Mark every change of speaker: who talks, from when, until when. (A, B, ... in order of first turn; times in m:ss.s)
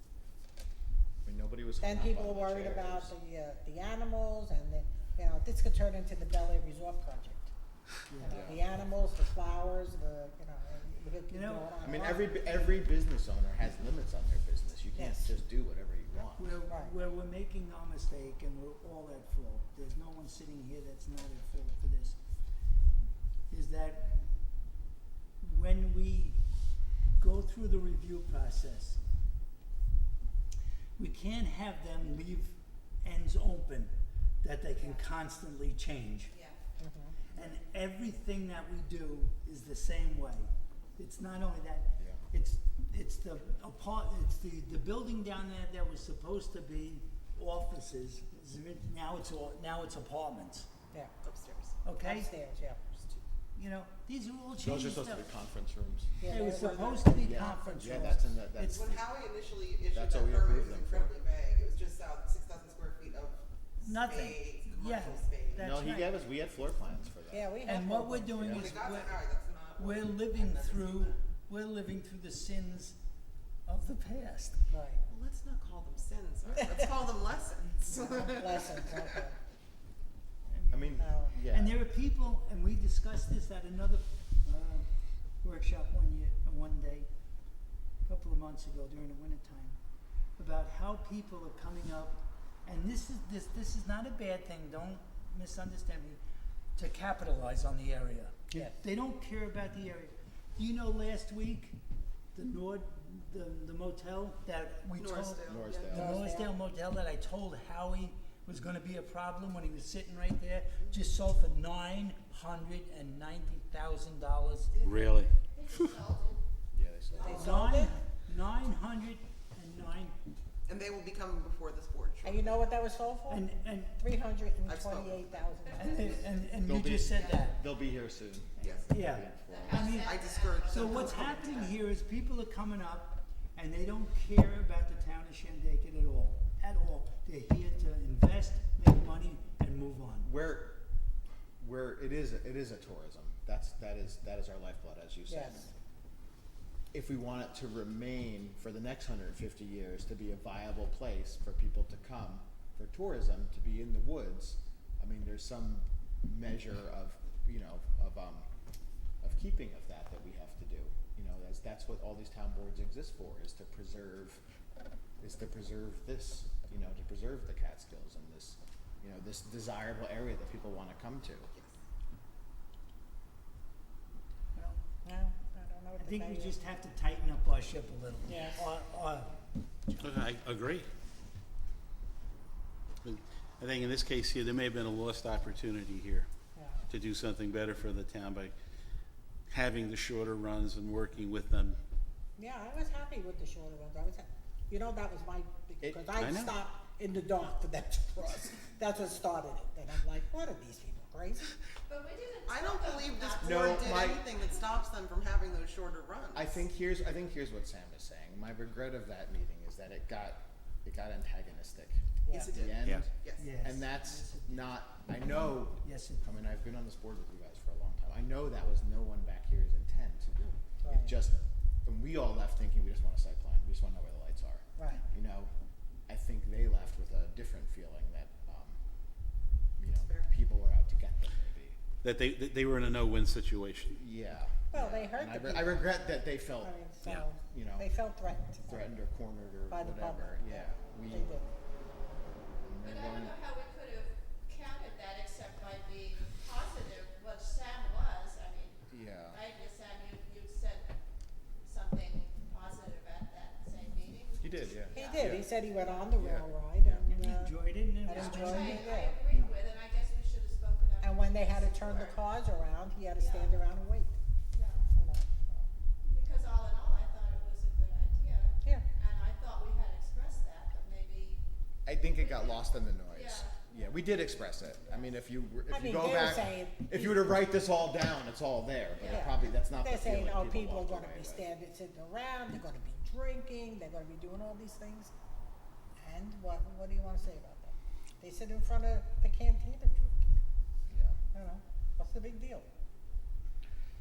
0:01.2-0:03.1 A
0:01.8-0:07.5 B
0:08.1-0:08.4 C
0:08.1-0:12.7 B
0:08.3-0:08.6 A
0:11.3-0:11.7 C
0:11.8-0:16.5 A
0:14.9-0:15.3 B
0:16.4-0:22.2 C
0:16.7-0:17.0 B
0:23.5-0:24.3 C
0:25.4-0:26.4 C
0:27.2-0:29.0 C
0:31.0-0:36.3 C
0:34.8-0:35.1 D
0:36.3-0:36.6 D
0:36.8-0:37.2 B
0:37.3-0:50.7 C
0:51.2-0:51.8 E
0:51.8-0:52.3 C
0:52.0-0:52.8 B
0:52.9-0:53.2 E
0:53.6-0:55.3 C
0:54.6-0:56.3 A
0:56.2-0:58.2 B
0:56.3-0:58.9 C
0:57.1-0:58.8 A
0:58.7-1:05.8 E
0:59.9-1:01.1 A
1:03.8-1:06.2 C
1:05.6-1:07.6 A
1:07.3-1:08.6 B
1:07.6-1:09.2 C
1:08.4-1:08.8 A
1:08.5-1:11.1 E
1:09.8-1:13.0 C
1:13.7-1:14.7 C
1:14.7-1:15.0 B
1:15.1-1:18.9 E
1:17.9-1:19.4 B
1:20.5-1:24.9 C
1:20.7-1:21.8 A
1:21.0-1:21.4 B
1:25.4-1:27.1 C
1:28.0-1:29.8 C
1:30.4-1:36.2 C
1:36.8-1:41.8 C
1:38.5-1:38.8 B
1:42.3-1:54.8 C
1:44.9-1:46.0 E
1:45.5-1:46.2 A
1:45.9-1:46.5 B
1:54.7-1:56.4 D
1:54.8-1:55.9 F
1:56.7-1:57.7 A
1:57.2-1:58.0 B
1:57.4-2:00.2 C
2:00.7-2:02.6 E
2:02.2-2:06.2 B
2:03.3-2:04.0 C
2:04.7-2:05.6 E
2:05.7-2:07.6 C
2:06.6-2:10.0 A
2:08.6-2:08.9 E
2:08.8-2:09.3 C
2:09.3-2:11.8 D
2:09.7-2:11.8 E
2:09.8-2:10.2 C
2:10.8-2:20.3 C
2:20.2-2:20.8 A
2:21.6-2:25.7 A
2:25.3-2:25.7 B
2:26.9-2:38.5 A
2:39.2-2:44.4 A
2:45.2-2:51.5 A
2:54.6-2:54.8 C
2:55.0-2:56.6 B
2:56.0-2:59.3 C
2:58.3-2:58.6 B
3:00.0-3:00.9 F
3:03.0-3:06.3 F
3:06.6-3:06.8 B
3:06.9-3:08.5 F
3:09.5-3:11.8 F
3:12.4-3:21.5 B
3:15.8-3:16.2 A
3:16.2-3:16.6 F
3:21.9-3:24.7 D
3:22.5-3:26.6 E
3:23.4-3:24.2 A
3:26.4-3:45.5 A
3:32.3-3:32.5 B
3:32.3-3:33.6 E
3:33.4-3:34.6 C
3:35.8-3:36.5 C
3:40.8-3:41.1 B
3:44.8-3:45.0 B
3:46.1-3:48.8 A
3:49.8-3:51.8 A
3:49.9-3:50.4 E
3:52.0-3:54.0 F
3:53.9-3:56.8 A
3:54.7-3:55.9 B
3:56.6-3:58.9 B
3:57.3-3:57.9 A
3:58.7-4:01.3 A
3:59.7-4:01.5 B
4:02.6-4:03.4 A
4:02.8-4:10.9 D
4:08.9-4:09.4 A
4:11.6-4:15.4 D
4:14.4-4:15.5 A
4:14.9-4:19.2 B
4:16.2-4:17.0 A
4:17.1-4:19.5 C
4:18.1-4:22.2 D
4:21.0-4:24.2 B
4:23.2-4:23.6 D
4:24.5-4:24.8 D
4:25.0-4:25.7 B
4:26.1-4:31.4 D
4:31.9-4:41.5 A
4:32.1-4:35.1 D
4:35.7-4:37.4 B
4:39.0-4:39.3 D
4:39.1-4:45.1 B
4:46.0-4:50.4 B
4:50.9-4:51.2 A
4:51.3-4:52.7 B